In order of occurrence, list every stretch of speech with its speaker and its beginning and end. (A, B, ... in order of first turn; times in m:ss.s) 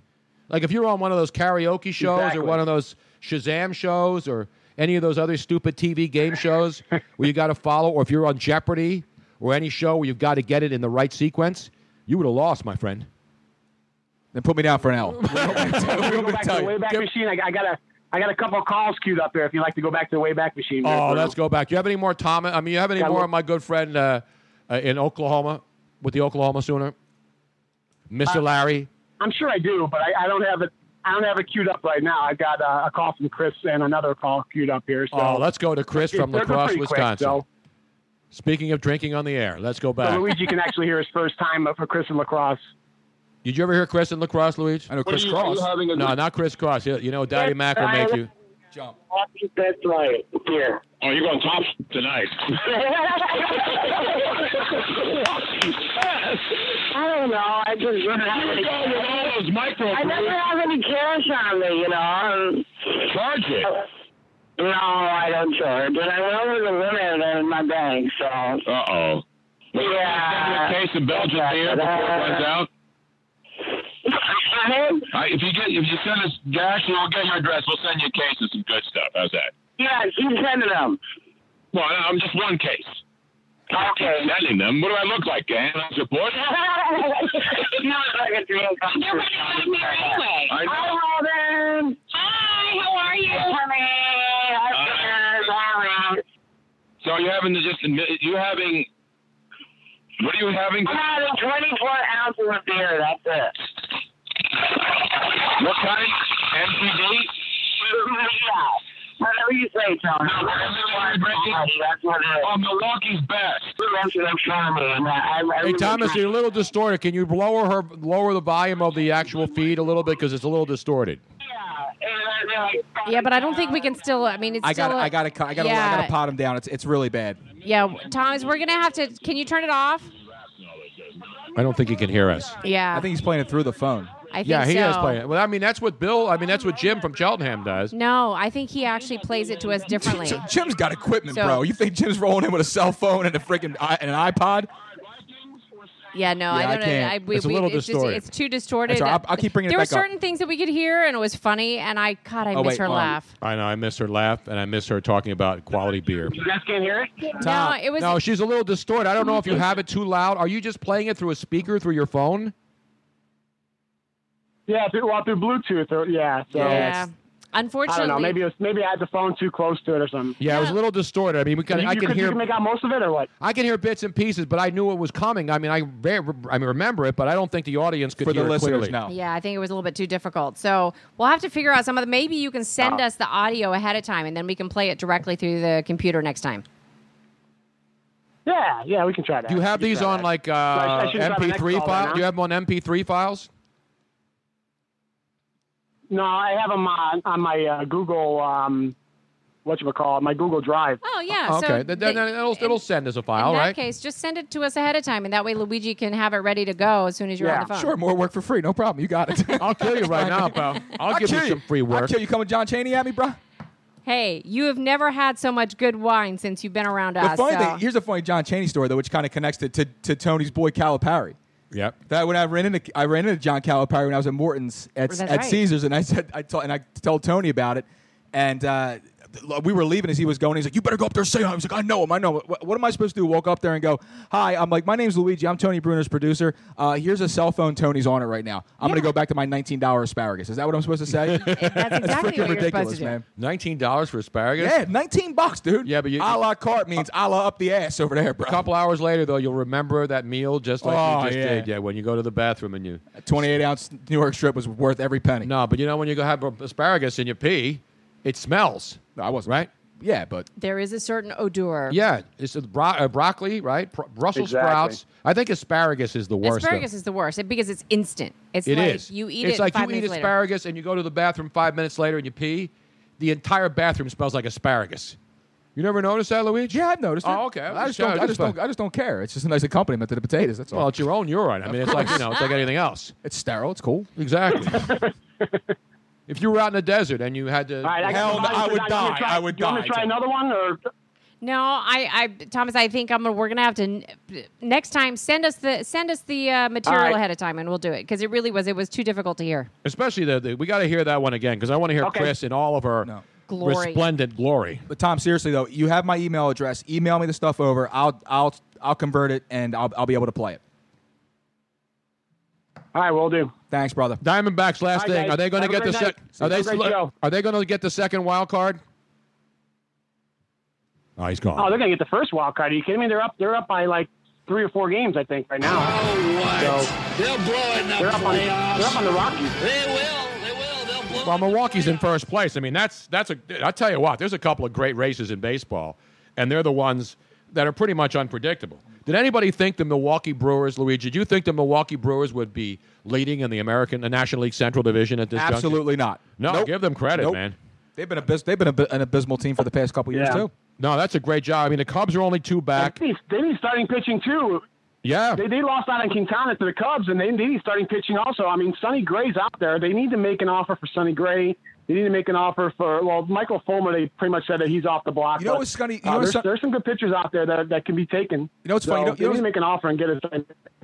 0:00.5-0:13.1 A
0:02.0-0:02.6 B
0:14.3-0:16.8 C
0:15.2-0:16.2 A
0:15.5-0:21.3 B
0:20.8-0:26.9 A
0:23.0-0:23.3 B
0:28.1-0:28.9 A
0:29.2-0:37.4 B
0:35.1-0:37.4 A
0:38.3-0:40.5 A
0:40.0-0:42.6 B
0:43.4-0:48.3 A
0:44.9-0:45.7 C
0:45.6-0:45.9 D
0:47.8-0:48.2 E
0:49.1-0:50.8 E
0:51.0-0:52.4 D
0:52.6-0:54.3 E
0:56.2-0:56.5 D
0:56.9-1:02.8 E
0:58.3-1:00.4 D
1:03.0-1:03.7 D
1:04.6-1:08.6 E
1:08.6-1:09.2 D
1:09.7-1:12.7 D
1:09.7-1:12.5 E
1:14.1-1:15.1 E
1:15.1-1:19.5 D
1:19.8-1:21.0 E
1:21.7-1:23.0 D
1:23.7-1:24.4 E
1:24.0-1:26.5 D
1:26.6-1:36.2 E
1:30.5-1:30.9 D
1:34.7-1:35.1 D
1:37.0-1:38.9 D
1:40.2-1:40.9 D
1:40.8-1:43.7 E
1:45.6-1:47.3 D
1:47.8-1:52.5 E
1:50.3-1:51.6 D
1:52.4-1:53.7 D
1:53.8-1:56.2 E
1:55.6-2:01.2 A
2:01.4-2:03.9 E
2:03.0-2:06.1 F
2:04.6-2:07.4 C
2:07.6-2:10.1 F
2:11.5-2:12.6 A
2:12.6-2:13.1 F
2:12.9-2:14.1 C
2:14.3-2:15.2 F
2:14.4-2:17.9 A
2:17.9-2:20.5 F
2:20.0-2:24.7 C
2:21.3-2:21.6 F
2:26.1-2:33.3 F
2:26.5-2:27.2 C
2:27.3-2:28.3 A
2:28.8-2:30.1 C
2:32.5-2:33.2 C
2:33.4-2:36.4 A
2:36.3-2:37.4 B
2:37.4-2:37.8 C
2:37.4-2:38.2 F
2:38.0-2:42.5 A
2:44.7-2:47.0 B
2:46.5-2:47.0 C
2:46.5-2:48.4 F
2:47.9-2:50.4 B
2:50.4-2:52.4 A
2:50.4-2:50.8 F
2:51.7-2:53.3 B
2:53.4-2:58.9 A
2:58.2-2:59.1 C
2:59.1-3:06.6 F
3:08.4-3:12.2 B
3:09.5-3:13.5 A
3:16.1-3:18.9 B
3:19.6-3:21.0 B
3:21.0-3:22.8 F
3:21.4-3:23.8 A
3:23.3-3:28.0 F
3:27.4-3:27.7 B
3:27.7-3:33.4 C
3:29.6-3:32.1 A
3:34.0-3:37.8 F
3:37.2-3:41.4 C
3:42.1-4:03.2 C
3:45.1-3:45.6 F
4:01.2-4:01.8 A
4:01.4-4:03.2 F
4:03.4-4:04.8 A
4:04.6-4:08.6 C
4:05.8-4:06.4 A
4:08.4-4:13.0 A
4:10.8-4:11.7 C
4:13.2-4:15.5 C
4:15.4-4:19.7 A
4:19.2-4:20.5 C
4:20.6-4:22.0 F
4:21.9-4:26.9 A
4:24.3-4:25.0 B
4:26.4-4:30.3 F
4:28.6-4:35.2 A
4:35.8-4:38.6 A
4:36.7-4:40.9 C
4:40.7-4:43.1 A
4:41.6-4:42.3 C
4:43.2-4:44.1 C
4:44.2-4:44.9 A
4:44.7-4:45.5 B
4:46.3-4:48.7 A
4:47.8-4:50.8 B
4:48.0-4:50.1 C
4:51.4-4:59.7 F
4:56.8-4:57.2 B
4:59.8-5:04.8 A
5:02.0-5:02.3 B
5:03.5-5:04.0 F
5:04.9-5:10.6 C
5:12.9-5:13.5 B
5:13.7-5:14.2 C
5:14.2-5:18.8 A
5:14.9-5:17.1 B
5:21.2-5:21.7 A
5:21.6-5:25.9 B
5:25.6-5:29.0 G
5:26.6-5:26.9 B
5:28.0-5:29.6 B
5:29.6-5:32.0 G
5:31.2-5:45.8 A
5:45.3-5:47.4 C
5:46.4-5:47.6 A
5:48.0-5:50.5 C
5:50.1-5:50.4 B
5:50.8-5:53.0 A
5:52.8-5:54.6 B
5:55.0-5:55.4 A
5:55.4-6:10.6 B
6:05.4-6:06.5 C
6:08.6-6:09.4 C